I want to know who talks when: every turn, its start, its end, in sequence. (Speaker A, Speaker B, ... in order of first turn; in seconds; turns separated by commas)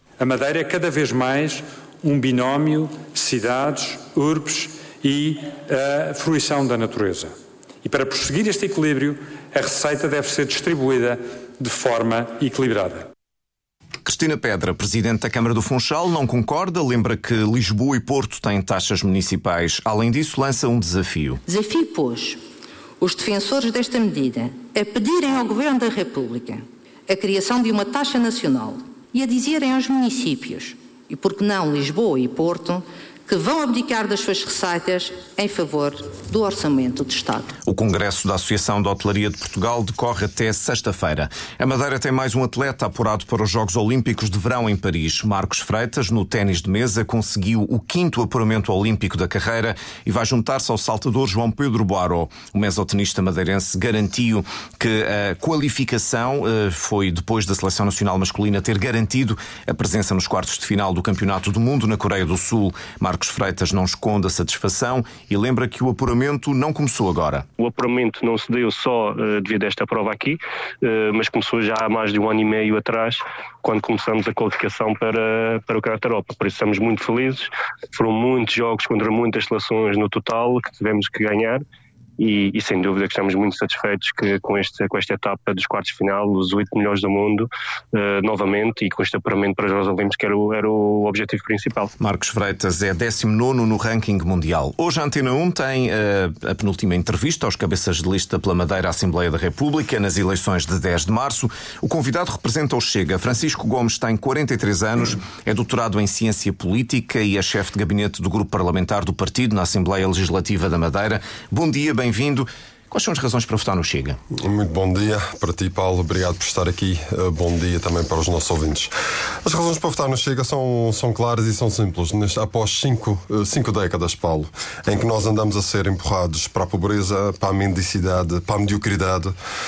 Speaker A: 0.2-13.1, Speaker B: 14.0-21.4, Speaker C: 21.5-22.4, Speaker C: 23.0-37.5, Speaker B: 37.6-67.5, Speaker D: 67.6-81.6, Speaker D: 82.2-91.9, Speaker B: 92.0-114.2, Speaker E: 114.4-118.9, Speaker E: 119.4-129.3